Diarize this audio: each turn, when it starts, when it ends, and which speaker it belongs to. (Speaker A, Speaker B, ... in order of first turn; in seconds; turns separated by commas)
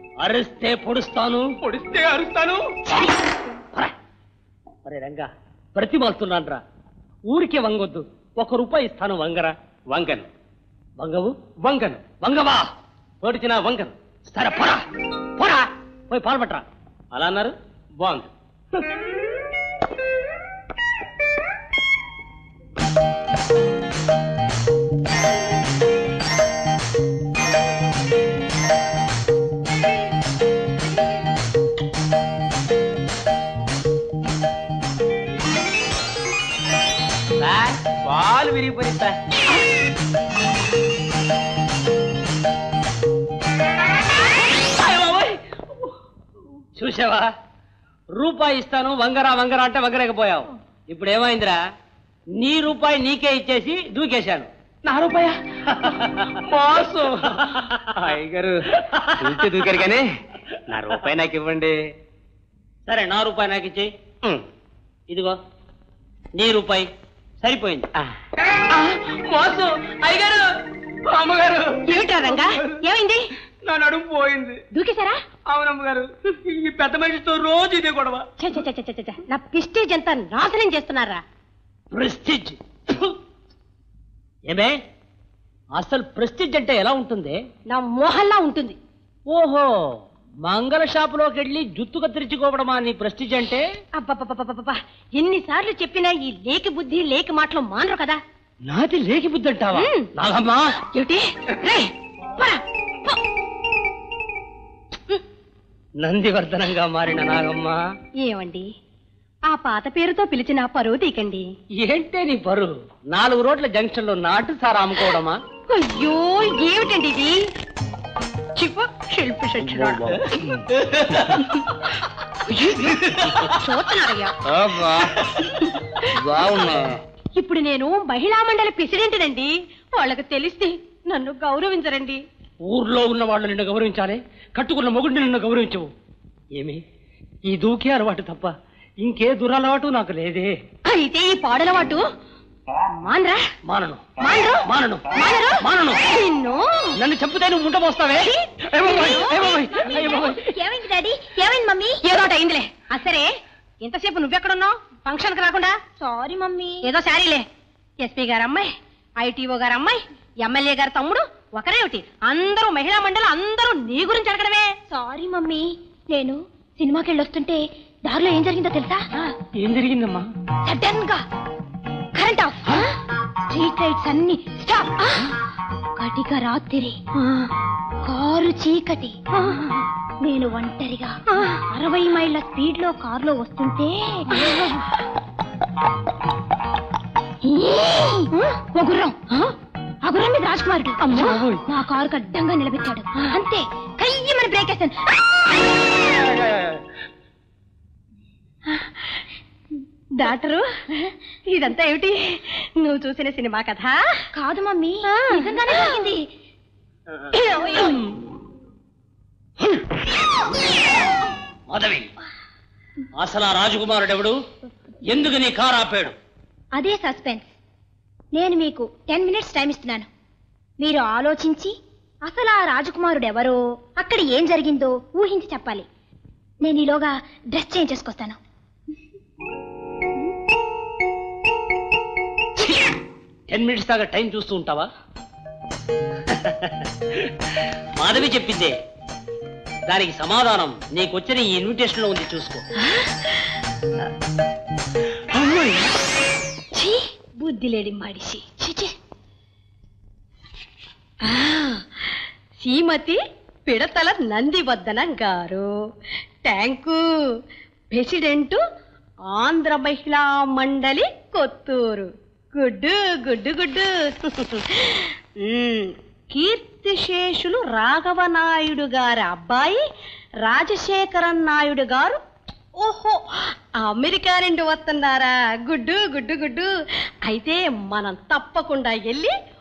Speaker A: 0.2-2.3, Speaker A: 4.8-6.6, Speaker A: 7.3-10.3, Speaker A: 11.0-12.7, Speaker A: 13.2-14.8, Speaker A: 15.4-18.3, Speaker A: 37.4-39.1, Speaker A: 44.8-45.4, Speaker A: 46.8-47.3, Speaker A: 48.1-51.6, Speaker A: 52.3-54.5, Speaker A: 55.9-56.1, Speaker A: 58.9-59.8, Speaker A: 60.7-61.1, Speaker A: 62.9-64.4, Speaker A: 65.1-65.4, Speaker A: 66.3-66.9, Speaker A: 67.4-67.9, Speaker B: 71.8-73.3, Speaker B: 74.7-75.2, Speaker A: 77.1-78.0, Speaker B: 78.4-81.2, Speaker A: 81.9-83.1, Speaker A: 84.5-84.7, Speaker A: 85.8-87.4, Speaker B: 87.7-88.8, Speaker A: 89.3-93.6, Speaker B: 94.0-98.2, Speaker A: 98.6-100.7, Speaker B: 99.7-100.1, Speaker B: 100.9-103.2, Speaker A: 106.0-107.8, Speaker B: 108.2-108.7, Speaker B: 109.5-111.5, Speaker A: 111.8-115.4, Speaker B: 115.7-117.5, Speaker B: 118.5-120.4, Speaker B: 121.3-124.3, Speaker A: 126.3-126.8, Speaker B: 127.3-132.2, Speaker A: 132.6-135.9, Speaker A: 136.6-136.8, Speaker A: 137.5-140.5, Speaker B: 140.8-142.0, Speaker B: 142.9-143.4, Speaker A: 143.7-146.0, Speaker B: 144.2-147.0, Speaker A: 146.9-150.5, Speaker B: 148.2-150.2, Speaker C: 149.2-151.9, Speaker B: 152.0-153.3, Speaker B: 153.8-155.8, Speaker C: 156.0-156.8, Speaker B: 156.8-157.4, Speaker B: 158.0-164.8, Speaker C: 164.9-169.1, Speaker A: 169.6-170.2, Speaker C: 170.6-171.2, Speaker C: 172.1-172.9, Speaker C: 173.5-175.3, Speaker C: 176.0-177.0, Speaker B: 177.2-177.5, Speaker C: 178.0-179.2, Speaker B: 179.3-179.7, Speaker C: 180.2-184.7, Speaker B: 181.3-181.6, Speaker B: 184.3-184.8, Speaker C: 187.4-189.2, Speaker B: 188.3-188.6, Speaker C: 190.0-195.2, Speaker B: 191.0-191.5, Speaker B: 198.7-199.1, Speaker B: 200.2-204.1, Speaker C: 204.3-206.3, Speaker B: 205.0-206.0, Speaker B: 207.3-208.1, Speaker C: 207.6-207.9, Speaker A: 211.7-212.1, Speaker A: 213.1-214.4, Speaker A: 215.0-216.1, Speaker C: 216.7-217.5, Speaker C: 218.3-220.1, Speaker C: 220.8-221.7, Speaker C: 222.2-225.8, Speaker C: 226.6-228.4, Speaker A: 233.5-234.9, Speaker A: 236.3-237.3, Speaker A: 238.0-238.7, Speaker A: 239.9-242.6, Speaker B: 245.3-245.8, Speaker B: 246.7-248.7, Speaker B: 251.2-252.0, Speaker B: 252.6-255.7, Speaker B: 256.4-257.0, Speaker B: 257.9-258.6, Speaker B: 259.3-269.8, Speaker B: 270.4-272.2, Speaker B: 272.8-276.7, Speaker B: 277.2-279.3